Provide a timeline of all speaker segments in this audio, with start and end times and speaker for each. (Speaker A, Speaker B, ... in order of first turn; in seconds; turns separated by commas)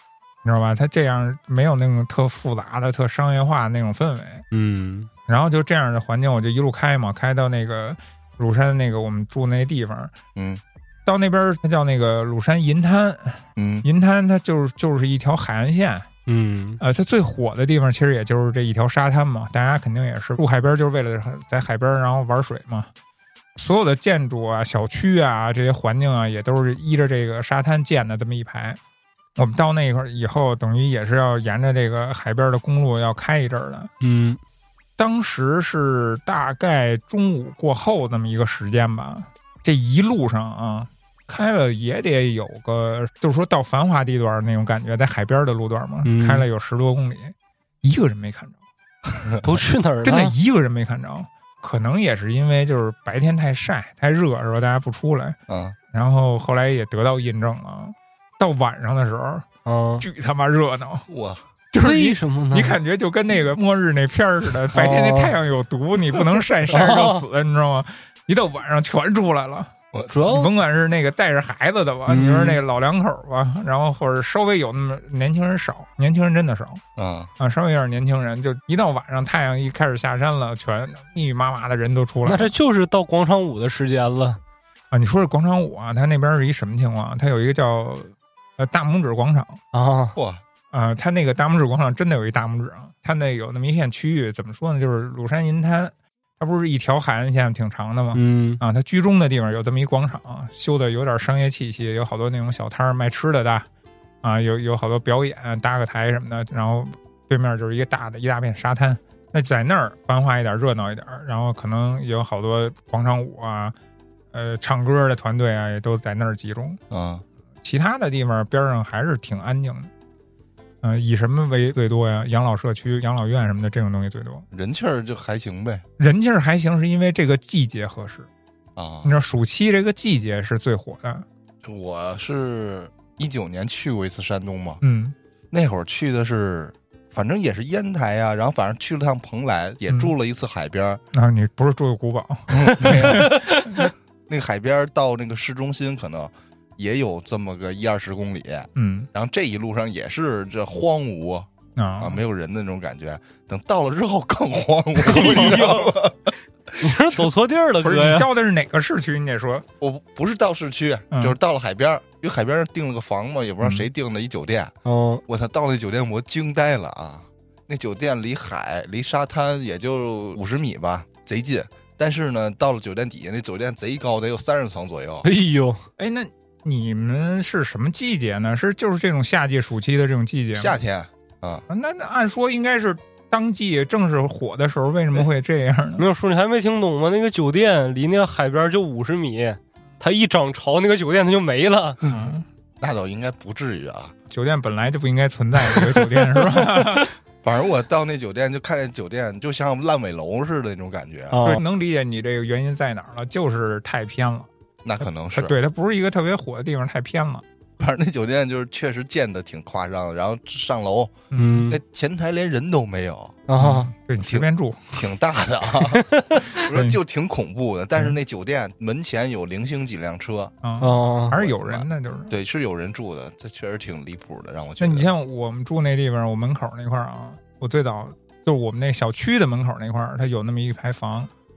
Speaker A: 0.4-4.5, Speaker B: 4.5-5.1, Speaker A: 5.3-10.2, Speaker C: 10.3-10.6, Speaker A: 11.1-16.1, Speaker C: 13.6-13.9, Speaker B: 16.3-16.8, Speaker A: 16.8-22.9, Speaker A: 23.6-28.8, Speaker A: 29.4-33.9, Speaker B: 34.0-34.4, Speaker A: 35.0-48.6, Speaker B: 46.0-46.5, Speaker B: 49.4-50.4, Speaker A: 50.0-55.4, Speaker C: 55.5-55.8, Speaker A: 55.9-59.5, Speaker B: 59.7-60.0, Speaker A: 60.0-61.1, Speaker C: 61.1-61.4, Speaker A: 61.7-76.8, Speaker B: 61.8-62.8, Speaker B: 64.7-65.4, Speaker B: 66.7-67.2, Speaker C: 69.9-70.3, Speaker B: 70.1-70.5, Speaker B: 72.1-72.6, Speaker C: 77.0-77.3, Speaker A: 77.4-82.5, Speaker B: 82.2-84.4, Speaker A: 84.9-89.6, Speaker B: 89.7-90.2, Speaker C: 90.2-90.4, Speaker A: 90.7-103.7, Speaker B: 98.1-98.6, Speaker A: 104.2-113.7, Speaker A: 114.3-116.8, Speaker C: 116.9-117.2, Speaker A: 117.6-119.9, Speaker A: 120.8-124.5, Speaker C: 124.5-125.8, Speaker A: 126.0-128.3, Speaker C: 128.8-129.2, Speaker A: 129.0-131.3, Speaker C: 131.6-134.8, Speaker A: 134.8-135.2, Speaker C: 135.5-141.0, Speaker A: 139.9-140.1, Speaker A: 141.1-143.9, Speaker C: 142.5-143.4, Speaker C: 144.3-157.3, Speaker A: 148.8-149.1, Speaker A: 151.8-152.2, Speaker B: 155.0-156.0, Speaker A: 155.1-155.8, Speaker B: 156.8-158.3, Speaker A: 157.8-159.7, Speaker C: 159.8-164.7, Speaker A: 161.1-161.4, Speaker A: 163.6-163.9, Speaker B: 164.9-165.2, Speaker C: 165.3-175.3, Speaker B: 175.2-175.8, Speaker A: 176.0-180.8, Speaker C: 180.6-181.7, Speaker A: 181.7-186.0, Speaker B: 186.0-192.0, Speaker A: 192.1-192.5, Speaker C: 192.8-194.1, Speaker A: 194.3-197.1, Speaker C: 197.4-201.6, Speaker B: 201.3-201.6, Speaker A: 201.4-204.5, Speaker C: 204.8-205.5, Speaker A: 205.3-207.4, Speaker C: 207.8-211.2, Speaker A: 211.3-211.7, Speaker B: 211.3-211.8, Speaker C: 211.7-213.4, Speaker B: 213.5-213.9, Speaker A: 213.6-215.1, Speaker C: 214.2-220.5, Speaker B: 215.9-216.5, Speaker A: 216.5-217.0, Speaker A: 220.6-222.3, Speaker B: 220.8-221.4, Speaker C: 221.3-225.1, Speaker A: 224.8-231.3